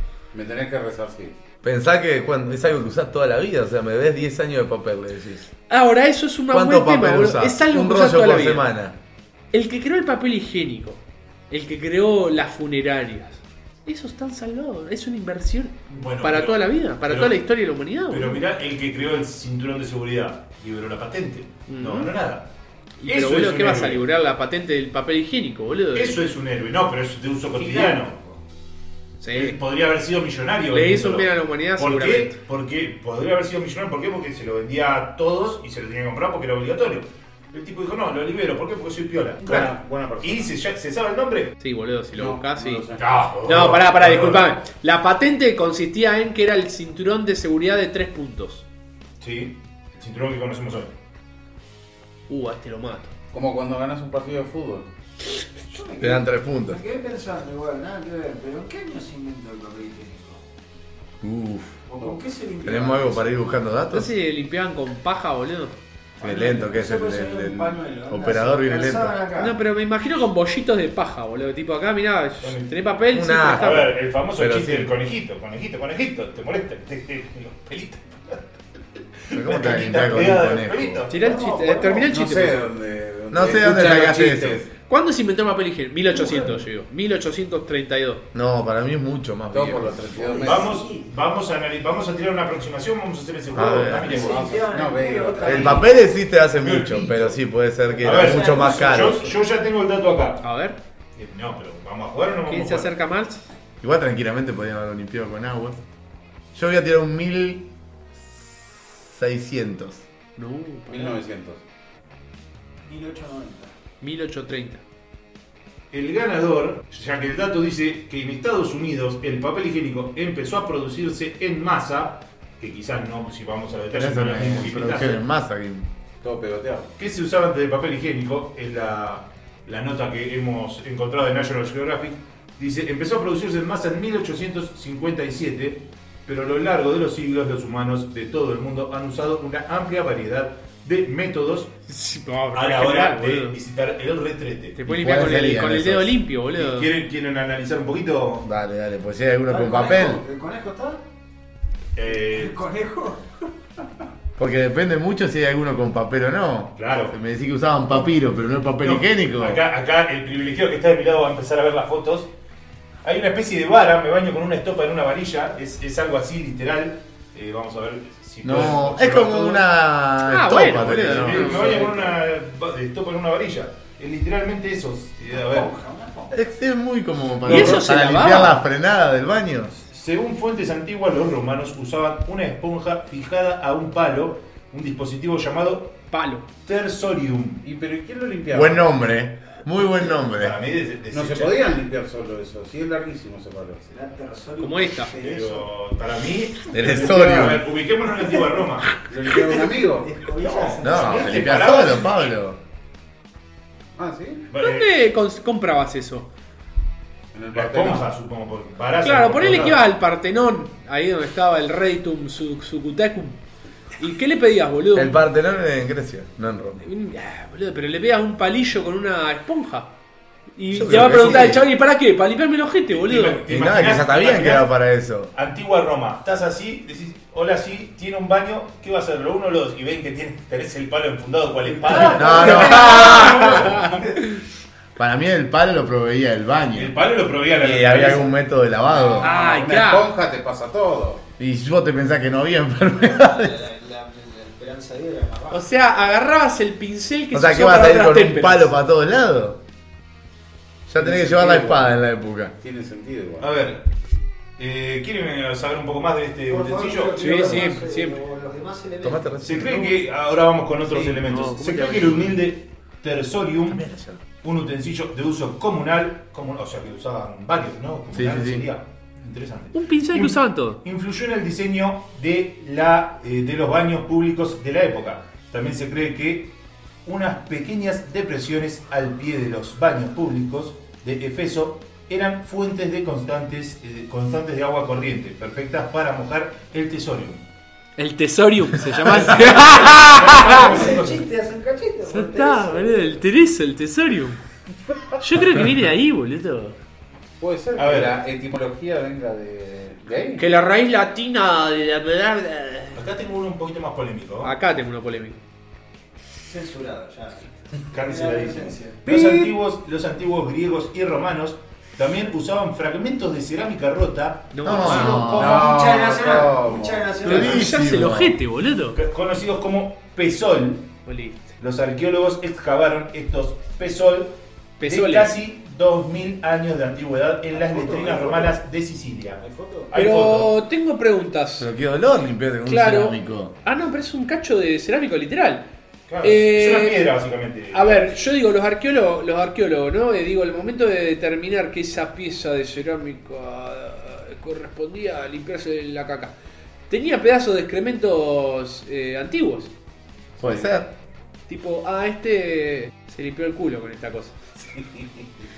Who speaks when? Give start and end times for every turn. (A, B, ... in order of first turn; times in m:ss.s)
0:00.3-0:01.4 A
0:01.6-0:05.5 B
0:05.7-0:08.7 C
0:06.5-0:09.0 B
0:09.5-0:18.4 C
0:15.9-0:17.4 D
0:18.1-0:22.5 D
0:21.7-0:22.1 C
0:23.0-0:26.2 C
0:23.1-0:24.0 D
0:25.9-0:28.4 D
0:27.6-0:27.9 C
0:29.2-0:29.6 C
0:29.3-0:41.6 D
0:30.7-0:32.4 C
0:39.4-0:40.5 A
0:41.6-0:42.9 C
0:42.2-0:43.2 A
0:43.0-0:44.5 D
0:43.4-0:48.6 C
0:49.2-0:50.9 D
0:52.3-0:53.1 C
0:53.3-0:54.9 A
0:55.7-1:00.4 E
0:56.0-0:56.8 B
1:01.2-1:01.8 B
1:01.9-1:03.3 E
1:02.6-1:04.1 B
1:03.9-1:05.8 C
1:06.2-1:09.6 E
1:06.2-1:09.2 B
1:09.4-1:13.9 C
1:12.4-1:12.7 D
1:13.1-1:14.9 B
1:13.5-1:18.4 D
1:19.2-1:21.5 D
1:19.3-1:21.0 B
1:21.1-1:22.7 C
1:21.2-1:22.1 E
1:22.0-1:24.7 A
1:23.3-1:24.7 B
1:24.9-1:28.2 C
1:26.1-1:26.6 E
1:28.3-1:30.3 B
1:29.5-1:30.7 A
1:30.1-1:31.1 E
1:30.4-1:34.5 D
1:33.5-1:34.2 B
1:33.6-1:35.9 E
1:34.0-1:35.8 A
1:35.4-1:39.3 B
1:35.4-1:35.8 D
1:36.6-1:37.4 D
1:37.9-1:39.4 E
1:38.0-1:40.4 D
1:40.4-1:40.8 C
1:41.2-1:42.9 D
1:42.5-1:43.4 C
1:43.8-1:45.8 B
1:46.5-1:47.7 B
1:48.3-1:50.0 B
1:50.4-1:51.2 C
1:50.9-1:51.6 A
1:52.9-1:53.7 E
1:54.0-1:54.8 C
1:55.9-2:05.2 D
2:03.9-2:05.9 B
2:06.2-2:06.9 A
2:07.0-2:21.7 D
2:21.9-2:23.6 C
2:22.5-2:24.8 D
2:24.8-2:26.9 C
2:24.9-2:26.2 B
2:26.5-2:28.5 D
2:28.4-2:30.2 B
2:29.5-2:31.0 E
2:32.0-2:32.6 D
2:32.1-2:33.5 E
2:34.4-2:39.6 B
2:36.8-2:37.1 D
2:38.8-2:42.3 D
2:43.0-2:49.7 D
2:48.4-2:51.9 B
2:50.2-2:51.9 C
2:50.6-2:55.7 D
2:55.3-2:56.4 E
2:56.3-2:59.7 B
2:57.4-2:58.6 C
2:59.9-3:06.0 D
3:06.1-3:06.5 C
3:06.6-3:07.6 D
3:07.6-3:08.8 A
3:08.5-3:10.6 B
3:10.2-3:11.7 D
3:11.1-3:13.9 A
3:13.9-3:15.7 E
3:14.6-3:15.1 C
3:15.2-3:19.0 D
3:16.7-3:17.6 B
3:16.9-3:17.6 A
3:19.0-3:20.1 A
3:19.9-3:21.9 E
3:20.4-3:22.3 D
3:20.8-3:22.6 B
3:24.0-3:24.5 A
3:24.5-3:24.9 D
3:24.5-3:26.3 C
3:27.3-3:28.0 A
3:27.5-3:29.8 D
3:29.0-3:33.4 C
3:34.0-3:35.2 C
3:35.0-3:36.8 B
3:36.8-3:39.9 C
3:40.6-3:43.4 C
3:40.7-3:41.7 B
3:41.0-3:41.5 D
3:42.9-3:44.8 D
3:43.5-3:45.3 B
3:45.3-3:53.8 D
3:51.9-3:54.0 E
3:52.0-3:53.8 B
3:52.0-3:54.4 C
3:55.0-3:57.0 B
3:56.7-3:58.3 D
3:57.6-3:59.3 B
3:59.0-4:01.3 A
3:59.2-4:00.1 C
4:01.4-4:03.6 B
4:03.0-4:05.7 E
4:05.5-4:08.8 C
4:07.3-4:09.6 B
4:10.9-4:12.5 B
4:11.0-4:12.0 A
4:12.6-4:13.5 A
4:13.4-4:13.9 D
4:14.6-4:17.7 D
4:16.5-4:19.6 E
4:17.2-4:18.2 C
4:19.0-4:19.9 B
4:19.4-4:23.9 D
4:20.9-4:21.2 A
4:21.0-4:22.4 C
4:23.7-4:24.2 B
4:24.4-4:36.5 D
4:28.1-4:28.7 B
4:29.7-4:30.8 C
4:37.0-4:47.4 D
4:48.0-4:50.8 C
4:48.9-4:51.2 D
4:50.3-4:53.2 E
4:52.1-4:54.4 C
4:55.2-4:56.8 C
4:57.4-5:00.5 A
4:57.8-4:58.2 D
5:00.4-5:03.0 C
5:02.9-5:04.5 D
5:04.4-5:05.4 C
5:06.4-5:09.0 E
5:07.9-5:15.6 D
5:09.1-5:09.5 A
5:14.5-5:15.4 C
5:14.6-5:15.6 B
5:15.3-5:17.1 A
5:15.3-5:17.8 E
5:17.2-5:19.0 C
5:17.2-5:18.4 B
5:19.0-5:20.9 D
5:21.1-5:21.5 C
5:21.6-5:30.5 D
5:24.8-5:25.3 C
5:27.5-5:28.6 E
5:29.4-5:29.9 E
5:29.9-5:31.7 C
5:31.6-5:33.6 B
5:32.7-5:35.7 C
5:36.1-5:38.1 D
5:36.2-5:37.1 C
5:37.7-5:46.4 C
5:46.9-5:49.7 C
5:50.4-5:50.9 B
5:51.5-5:54.4 C